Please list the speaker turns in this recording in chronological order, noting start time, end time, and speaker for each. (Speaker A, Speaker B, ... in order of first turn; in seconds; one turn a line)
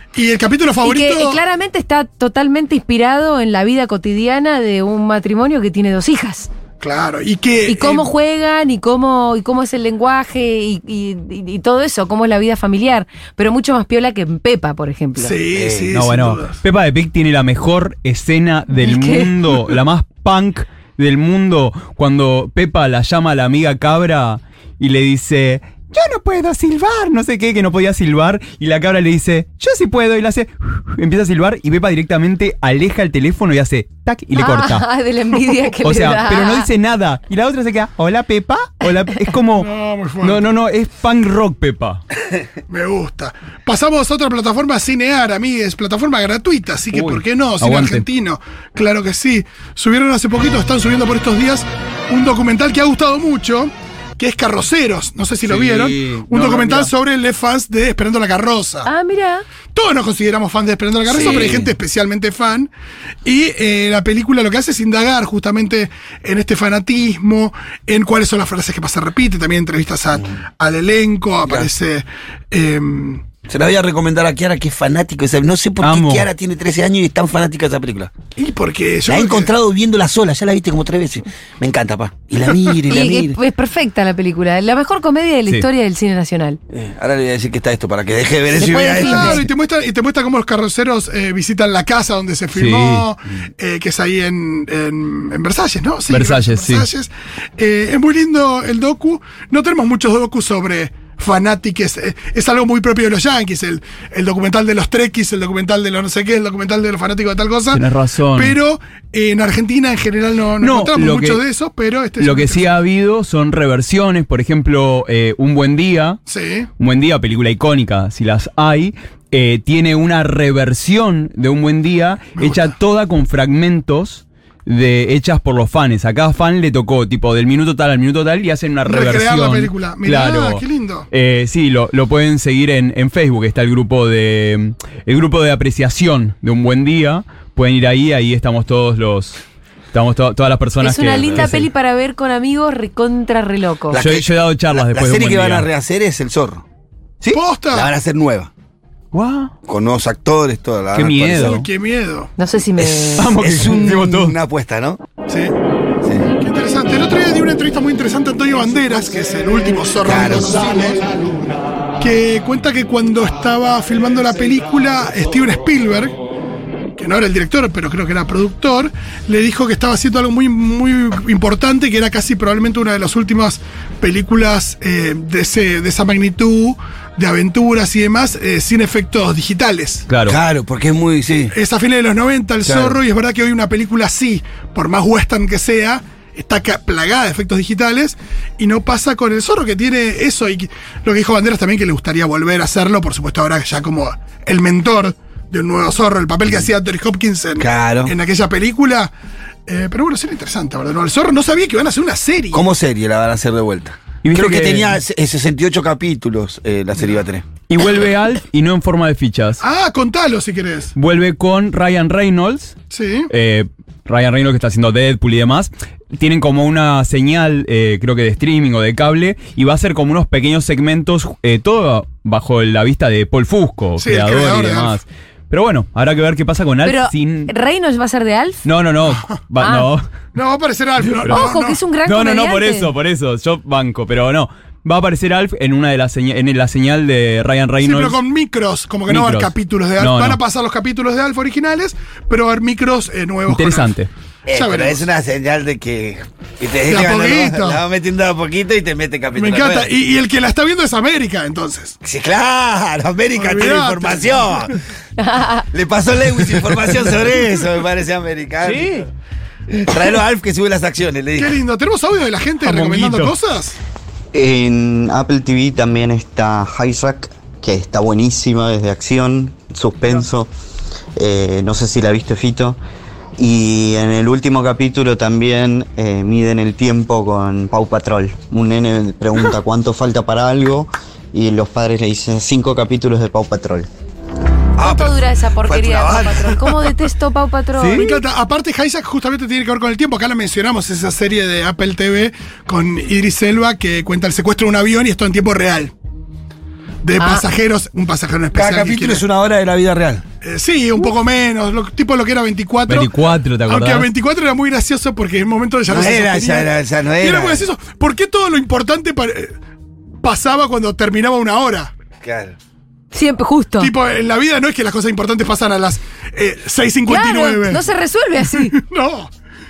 Speaker A: 0.1-1.4
Speaker B: 0.8-6.5
Speaker A: 6.8-8.1
Speaker B: 7.7-15.3
Speaker A: 15.2-16.6
Speaker C: 15.5-15.9
Speaker D: 15.9-34.9
Speaker B: 18.8-19.3
Speaker B: 34.4-36.7
Speaker D: 35.8-39.7
Speaker A: 39.6-40.4
Speaker D: 40.2-42.0
Speaker A: 42.7-58.9
Speaker D: 46.9-48.0
Speaker D: 55.4-56.9
Speaker B: 58.8-59.4
Speaker A: 59.7-62.7
Speaker C: 61.1-61.7
Speaker A: 63.2-73.2
Speaker C: 73.5-78.1
Speaker D: 75.8-76.3
Speaker A: 78.3-79.5
Speaker C: 79.1-83.4
Speaker B: 82.9-86.6
Speaker C: 86.7-89.4
Speaker B: 88.6-89.4
Speaker A: 88.7-107.8
Speaker D: 92.5-93.0
Speaker D: 96.1-96.9
Speaker D: 107.7-108.5
Speaker A: 108.3-112.7
Speaker D: 110.6-111.4
Speaker D: 112.2-116.2
Speaker A: 116.3-116.7
Speaker D: 116.8-139.4
Speaker A: 122.4-122.7
Speaker A: 128.8-131.1
Speaker D: 139.9-141.7
Speaker B: 140.8-144.0
Speaker C: 143.9-146.6
Speaker D: 144.0-145.7
Speaker A: 147.3-147.9
Speaker C: 147.7-148.5
Speaker D: 149.1-149.5
Speaker C: 149.7-151.5
Speaker D: 150.9-151.7
Speaker A: 151.3-152.3
Speaker B: 152.4-153.3
Speaker C: 152.8-155.0
Speaker D: 153.2-154.3
Speaker A: 155.3-155.5
Speaker C: 156.0-156.3
Speaker A: 156.4-161.0
Speaker C: 160.0-160.7
Speaker A: 162.0-166.2
Speaker A: 167.0-180.1
Speaker D: 180.1-180.4
Speaker C: 180.2-181.5
Speaker A: 181.5-199.1
Speaker C: 182.6-183.0
Speaker C: 197.6-198.1
Speaker A: 199.7-202.7
Speaker C: 202.5-207.4
Speaker D: 204.2-205.0
Speaker D: 207.7-209.6
Speaker A: 209.6-210.9
Speaker D: 210.9-212.8
Speaker A: 212.9-213.3
Speaker D: 213.3-227.5
Speaker A: 224.0-225.0
Speaker B: 226.8-228.6
Speaker D: 228.6-230.0
Speaker B: 229.6-229.9
Speaker A: 230.3-231.8
Speaker D: 231.2-231.5
Speaker B: 231.3-232.9
Speaker D: 232.1-238.2
Speaker A: 237.8-243.9
Speaker D: 239.1-240.4
Speaker D: 243.5-244.1
Speaker C: 244.4-249.9
Speaker A: 244.5-245.0
Speaker A: 246.9-247.8
Speaker A: 249.3-252.0
Speaker C: 252.0-254.7
Speaker A: 253.3-254.6
Speaker B: 255.2-255.6
Speaker C: 255.7-259.0
Speaker D: 258.6-259.1
Speaker C: 259.7-261.5
Speaker A: 261.4-263.7
Speaker D: 262.6-263.3
Speaker E: 264.3-270.5
Speaker E: 271.2-272.8
Speaker E: 273.4-283.9
Speaker C: 284.8-286.9
Speaker B: 284.8-288.1
Speaker D: 287.8-288.1
Speaker A: 287.9-295.9
Speaker A: 297.0-299.2
Speaker B: 297.2-297.4
Speaker C: 298.5-300.2
Speaker A: 300.4-303.1
Speaker D: 302.9-304.1
Speaker A: 303.7-309.5
Speaker C: 305.9-307.6
Speaker A: 310.2-311.9
Speaker C: 312.2-312.5
Speaker B: 313.1-313.9
Speaker A: 313.8-317.8
Speaker B: 317.1-318.7
Speaker A: 318.5-319.3